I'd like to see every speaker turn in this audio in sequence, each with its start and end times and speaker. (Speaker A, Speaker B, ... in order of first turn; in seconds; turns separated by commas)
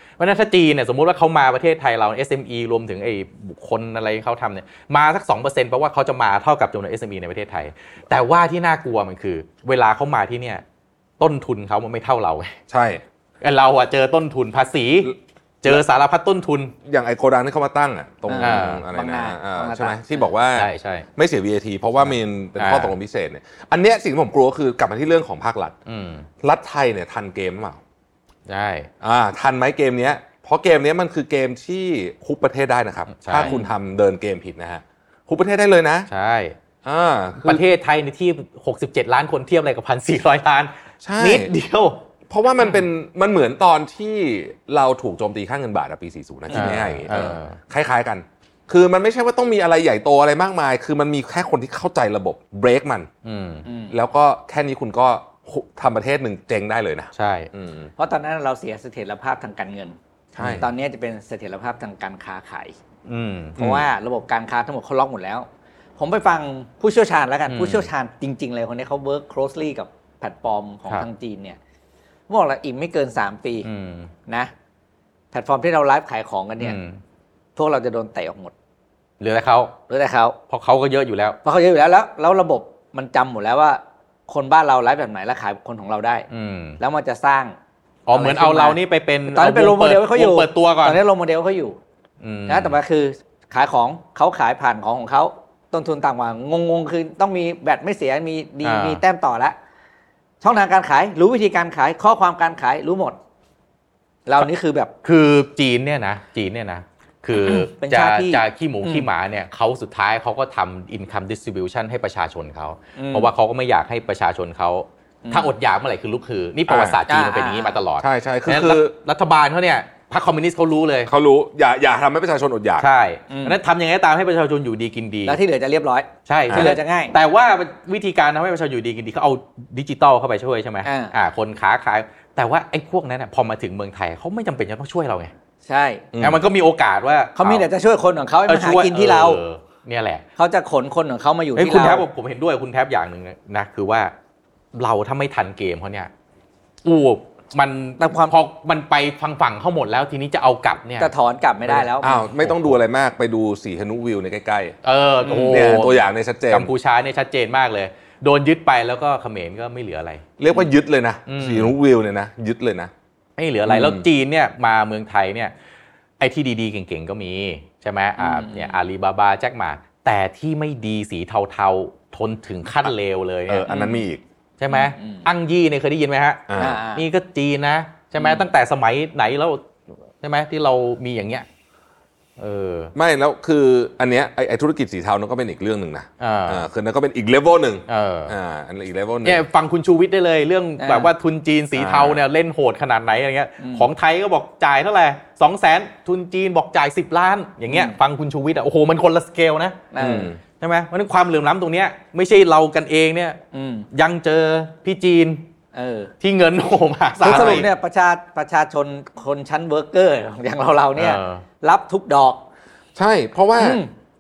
Speaker A: 0.2-10.6, Speaker A: 11.2-12.6, Speaker B: 12.7-13.0, Speaker A: 13.4-16.7, Speaker B: 16.9-25.8, Speaker C: 18.3-20.0, Speaker A: 18.4-18.8, Speaker A: 20.6-21.1, Speaker A: 22.1-22.9, Speaker A: 25.9-26.3, Speaker B: 26.4-27.8, Speaker A: 28.5-28.9, Speaker B: 29.0-36.1, Speaker A: 33.2-33.5, Speaker C: 33.4-33.7, Speaker A: 36.1-36.6, Speaker B: 36.8-37.6, Speaker A: 37.4-42.0, Speaker B: 41.0-41.5, Speaker B: 42.3-53.1, Speaker C: 46.5-46.8, Speaker A: 46.5-47.6, Speaker A: 53.2-53.6, Speaker C: 53.6-53.9, Speaker B: 53.9-57.9, Speaker A: 57.1-57.5, Speaker C: 58.0-62.8, Speaker B: 60.4-60.7, Speaker A: 63.1-63.6, Speaker B: 63.6-63.9, Speaker C: 63.6-65.5, Speaker C: 66.0-71.6, Speaker A: 67.5-67.9, Speaker C: 72.3-73.7, Speaker A: 73.6-74.1, Speaker C: 75.3-76.8, Speaker A: 76.6-77.0, Speaker C: 77.6-78.5, Speaker A: 79.2-79.8, Speaker C: 79.9-80.4, Speaker A: 80.5-81.4, Speaker C: 81.4-86.3, Speaker A: 86.3-86.8, Speaker C: 86.8-87.5, Speaker A: 88.1-91.0, Speaker C: 88.1-91.8, Speaker A: 92.2-92.8, Speaker C: 92.5-99.6, Speaker A: 98.6-99.0, Speaker C: 100.4-103.2, Speaker C: 104.3-104.9, Speaker A: 105.0-121.1, Speaker C: 107.4-109.1, Speaker C: 113.0-113.3, Speaker C: 115.2-115.5, Speaker B: 116.7-117.0, Speaker C: 117.1-117.8, Speaker B: 118.0-118.9, Speaker B: 121.1-122.9, Speaker A: 122.8-125.4, Speaker C: 123.3-123.6, Speaker C: 125.3-127.1, Speaker A: 126.3-135.3, Speaker B: 126.5-126.8, Speaker C: 130.8-131.1, Speaker C: 135.7-136.1, Speaker B: 136.1-136.4, Speaker A: 136.2-137.7, Speaker C: 137.4-139.4, Speaker A: 138.5-140.2, Speaker C: 140.4-142.0, Speaker A: 141.6-144.1, Speaker A: 144.7-146.1, Speaker A: 146.8-151.1, Speaker C: 148.0-148.3, Speaker C: 151.0-152.3, Speaker B: 152.0-154.8, Speaker A: 152.4-152.7, Speaker A: 154.8-160.2, Speaker C: 155.2-155.7, Speaker B: 155.5-156.7, Speaker B: 160.4-162.9, Speaker A: 161.3-161.8, Speaker A: 163.4-165.5, Speaker B: 163.7-164.1, Speaker A: 166.2-173.7, Speaker C: 168.2-168.8, Speaker B: 173.5-174.2, Speaker C: 173.7-174.0, Speaker A: 174.6-179.6, Speaker C: 174.7-175.3, Speaker B: 176.5-176.8, Speaker C: 176.6-177.0, Speaker A: 180.2-181.5, Speaker A: 182.4-182.9, Speaker B: 182.9-189.4, Speaker A: 186.2-186.7, Speaker A: 187.9-188.3, Speaker A: 189.2-199.8, Speaker C: 190.8-191.1, Speaker B: 191.8-192.2, Speaker C: 193.6-193.9, Speaker C: 197.7-198.0, Speaker C: 199.9-200.3, Speaker B: 200.0-200.4, Speaker A: 200.6-203.4, Speaker C: 203.5-203.9, Speaker A: 203.9-205.4, Speaker C: 205.7-206.1, Speaker A: 206.2-207.7, Speaker C: 207.2-212.4, Speaker B: 207.2-207.7, Speaker A: 211.0-211.4, Speaker B: 213.0-213.8, Speaker C: 213.6-213.9